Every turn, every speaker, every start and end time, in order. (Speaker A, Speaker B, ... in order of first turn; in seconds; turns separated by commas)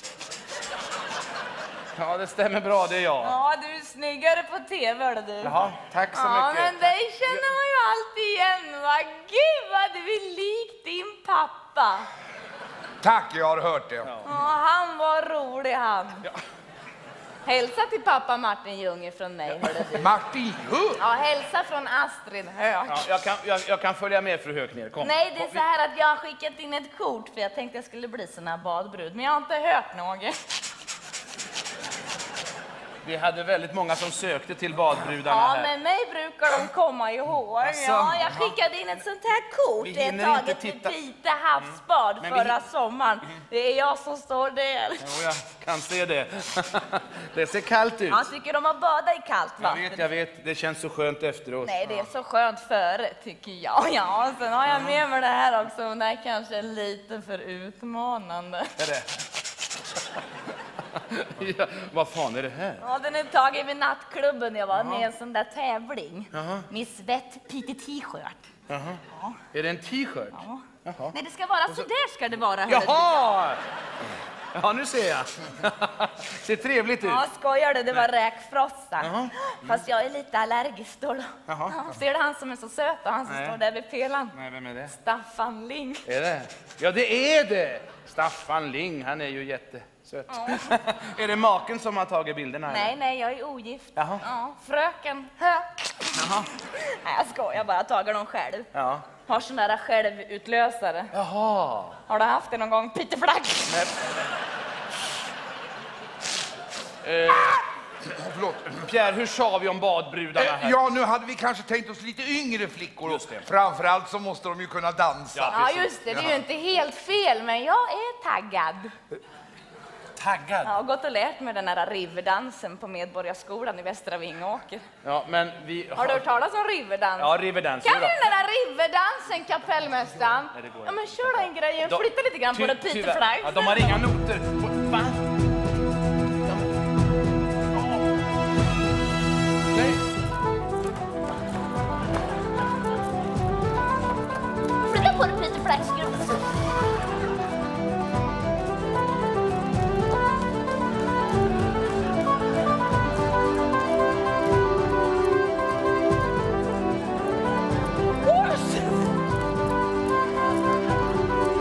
Speaker A: 1.9-3.4, Speaker B: 3.2-5.5, Speaker A: 5.4-7.5, Speaker B: 6.1-12.1, Speaker C: 13.0-14.1, Speaker A: 14.0-14.3, Speaker B: 14.2-16.3, Speaker B: 17.4-20.1, Speaker A: 19.6-19.9, Speaker C: 20.0-21.0, Speaker B: 21.0-23.0, Speaker A: 22.9-25.6, Speaker B: 25.0-30.6, Speaker A: 33.0-35.7, Speaker B: 35.2-45.1, Speaker A: 37.6-38.5, Speaker A: 39.8-41.0, Speaker A: 41.6-42.6, Speaker A: 45.0-48.3, Speaker B: 48.1-50.0, Speaker A: 49.6-52.1, Speaker B: 51.6-58.8, Speaker A: 54.7-55.0, Speaker A: 58.8-59.1, Speaker A: 60.9-62.8, Speaker B: 62.8-68.5, Speaker A: 64.7-65.1, Speaker A: 66.3-66.7, Speaker A: 68.7-71.1, Speaker B: 69.1-69.4, Speaker B: 70.3-73.4, Speaker A: 72.7-73.6, Speaker A: 74.5-77.2, Speaker B: 77.0-84.4, Speaker A: 79.0-79.8, Speaker A: 81.5-81.9, Speaker A: 83.2-83.6, Speaker A: 84.3-85.0, Speaker B: 84.9-86.1, Speaker A: 86.1-92.9, Speaker B: 90.3-90.7, Speaker B: 92.7-98.7, Speaker A: 94.0-94.2, Speaker A: 96.1-96.5, Speaker A: 98.7-99.1, Speaker B: 99.2-101.1, Speaker A: 101.1-102.0, Speaker B: 102.1-103.8, Speaker A: 103.7-104.1, Speaker A: 107.0-107.7, Speaker C: 108.1-108.7, Speaker A: 108.7-110.9, Speaker C: 110.3-115.5, Speaker A: 113.0-113.5, Speaker A: 115.3-116.2, Speaker B: 115.5-118.9, Speaker A: 120.2-120.8, Speaker B: 120.6-124.8, Speaker A: 125.0-126.2, Speaker B: 126.0-134.1, Speaker A: 127.2-128.3, Speaker A: 130.5-135.2, Speaker B: 144.8-146.4, Speaker B: 158.2-159.1